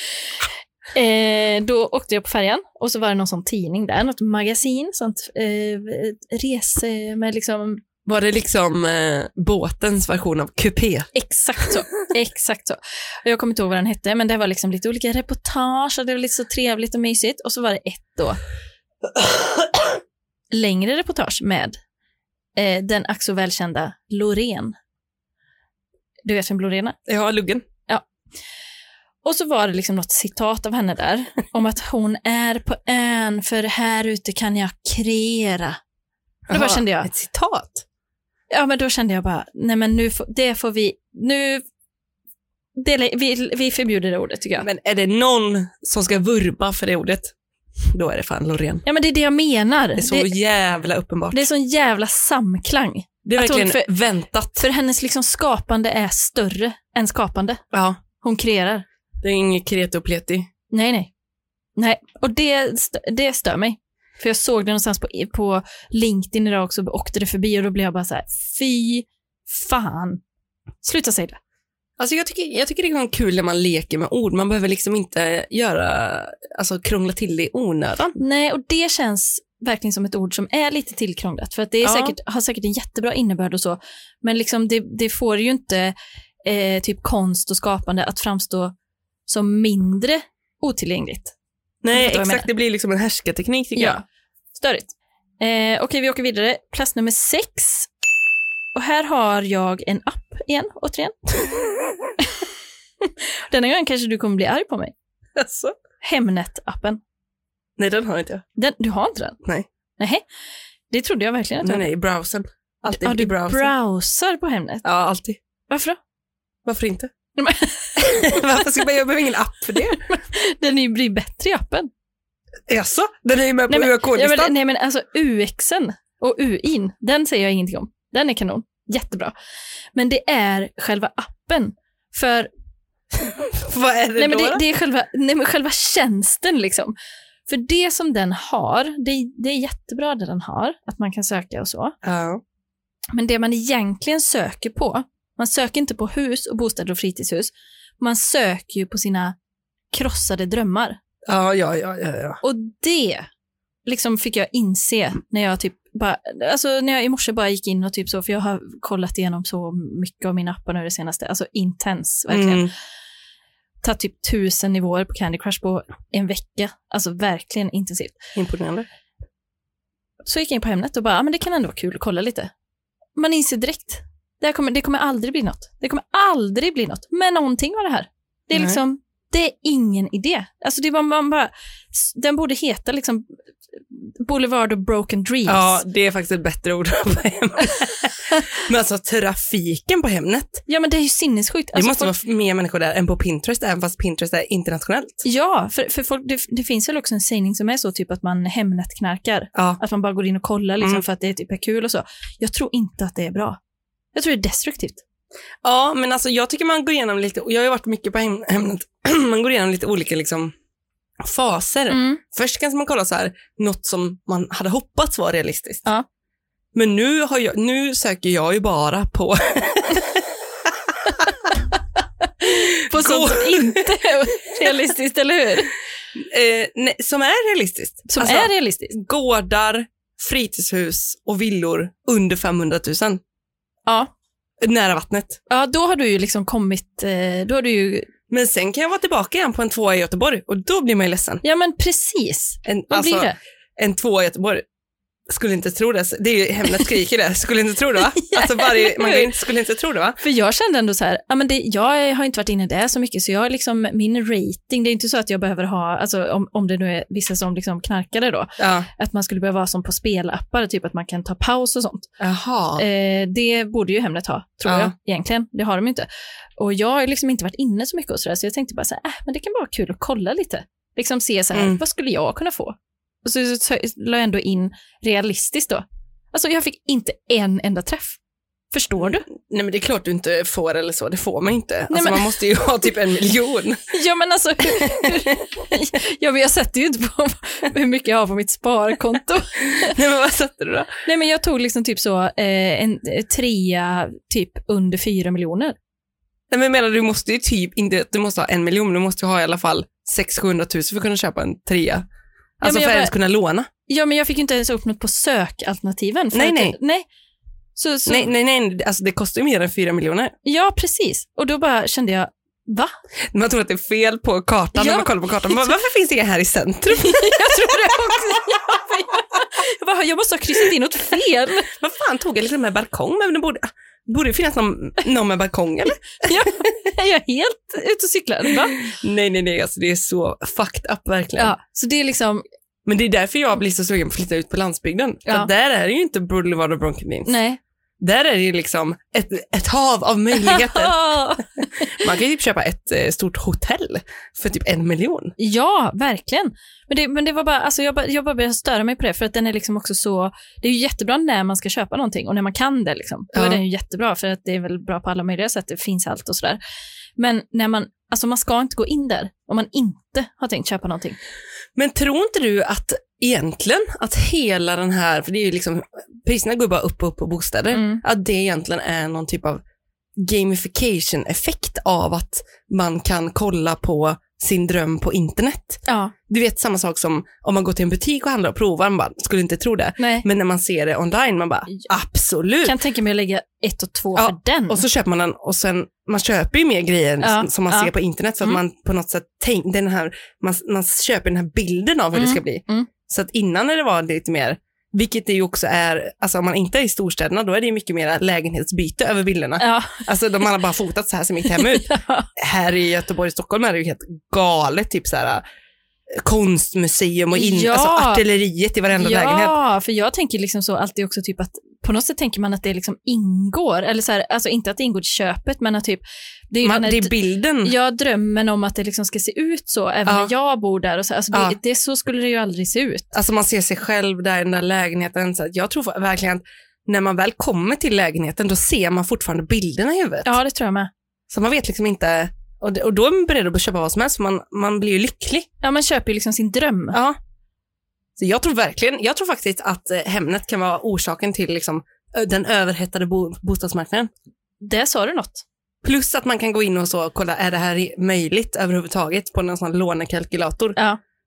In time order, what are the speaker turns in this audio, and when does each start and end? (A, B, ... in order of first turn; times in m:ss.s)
0:00.9-0:07.8 A
0:08.0-0:11.1 B
0:11.1-0:18.4 A
0:20.5-0:21.8 A
0:22.6-0:24.7 A
0:26.2-0:27.0 A
0:27.1-0:27.6 B
0:29.2-0:35.8 A
0:36.5-0:37.8 B
0:36.5-0:37.1 A
0:38.5-0:41.6 A
0:42.8-0:44.7 A
0:44.6-0:47.3 B
0:47.9-0:48.8 B
0:48.8-0:50.3 A
0:50.0-0:51.5 B
0:51.3-0:53.8 A
0:53.2-0:54.7 B
0:54.6-0:57.6 A
0:57.7-0:58.0 B
0:58.2-0:58.8 A
0:59.2-1:00.5 B
1:00.7-1:01.1 A
1:01.8-1:10.2 A
1:10.8-1:11.4 A
1:12.0-1:18.2 B
1:18.2-1:25.9 A
1:21.8-1:22.1 B
1:26.4-1:28.7 A
1:29.3-1:31.3 A
1:31.8-1:34.0 B
1:31.9-1:32.5 A
1:33.7-1:34.0 A
1:34.5-1:37.9 A
1:38.7-1:41.3 A
1:43.0-1:44.9 A
1:45.4-1:45.8 B
1:46.0-1:47.0 A
1:47.8-1:48.4 B
1:48.6-1:49.4 A
1:50.0-1:50.2 A
1:50.9-1:51.9 A
1:51.6-1:53.7 B
1:52.9-1:54.8 A
1:54.8-1:55.4 B
1:55.7-1:56.0 A
1:56.6-1:57.1 B
1:57.4-1:58.4 A
1:58.0-2:00.0 B
2:00.0-2:01.9 A
2:02.7-2:04.5 B
2:03.7-2:09.3 A
2:09.9-2:12.5 A
2:13.2-2:14.6 B
2:14.2-2:16.9 A
2:17.5-2:22.0 A
2:22.0-2:22.4 B
2:23.1-2:29.4 A
2:29.9-2:31.0 A
2:31.3-2:32.4 B
2:32.4-2:33.3 A
2:33.8-2:42.7 A
2:42.3-2:42.7 B
2:43.8-2:48.3 A
2:48.4-2:48.9 B
2:50.2-2:52.5 A
2:53.2-3:03.3 A
2:58.5-2:58.8 B
3:03.9-3:05.8 A
3:05.5-3:10.6 B
3:10.6-3:12.1 A
3:11.7-3:15.2 B
3:15.2-3:23.6 A
3:19.5-3:19.8 B
3:24.1-3:25.0 A
3:25.6-3:30.5 B
3:31.2-3:35.8 B
3:31.9-3:32.2 A
3:36.7-3:41.5 B
3:42.4-3:45.7 A
3:42.5-3:43.9 B
3:46.1-3:53.2 B
3:48.1-3:48.9 A
3:54.6-3:55.4 B
3:55.5-3:58.1 A
3:58.3-4:01.4 B
4:01.4-4:03.4 A
4:02.6-4:04.6 B
4:05.3-4:10.2 B
4:08.2-4:09.3 A
4:10.2-4:22.1 A
4:18.6-4:18.9 B
4:22.2-4:22.8 B
4:22.8-4:26.1 A
4:24.6-4:24.9 B
4:26.6-4:38.2 A
4:31.5-4:31.8 B
4:38.7-4:39.3 A
4:39.3-4:43.8 B
4:41.9-4:42.3 A
4:43.9-4:50.0 A
4:44.6-4:45.3 B
4:49.7-4:50.9 B
4:51.0-4:55.8 A
4:56.5-5:02.0 B
5:02.6-5:03.7 B
5:02.6-5:03.1 A
5:03.9-5:07.0 A
5:06.3-5:06.8 B
5:07.8-5:08.3 A
5:08.0-5:10.3 B
5:10.4-5:12.9 A
5:13.3-5:18.2 B
5:14.8-5:15.7 A
5:16.9-5:21.7 A
5:21.7-5:26.5 B
5:26.2-5:28.8 A
5:28.7-5:31.5 B
5:31.4-5:32.4 A
5:32.8-5:37.3 B
5:37.2-5:37.6 A
5:38.0-5:41.3 B
5:40.4-5:41.9 A
5:41.9-5:45.3 B
5:45.4-5:56.6 A
5:53.3-5:53.6 B
5:57.2-6:01.2 A
6:01.8-6:09.6 B
6:07.7-6:08.0 A
6:10.2-6:22.8 B
6:15.9-6:16.1 A
6:20.0-6:20.2 A
6:22.6-6:24.8 A
6:24.1-6:45.4 B
6:27.2-6:27.9 A
6:32.1-6:32.9 A
6:39.6-6:40.1 A
6:41.4-6:42.3 A
6:46.2-6:49.6 B
6:47.3-6:48.2 A
6:48.9-6:57.1 A
6:56.6-6:57.7 B
6:57.6-7:03.1 A
7:00.0-7:00.3 B
7:03.1-7:10.3 B
7:10.2-7:10.9 A
7:11.3-7:15.5 B
7:15.6-7:17.0 A
7:18.2-7:24.1 B
7:24.6-7:25.4 A
7:25.8-7:30.8 B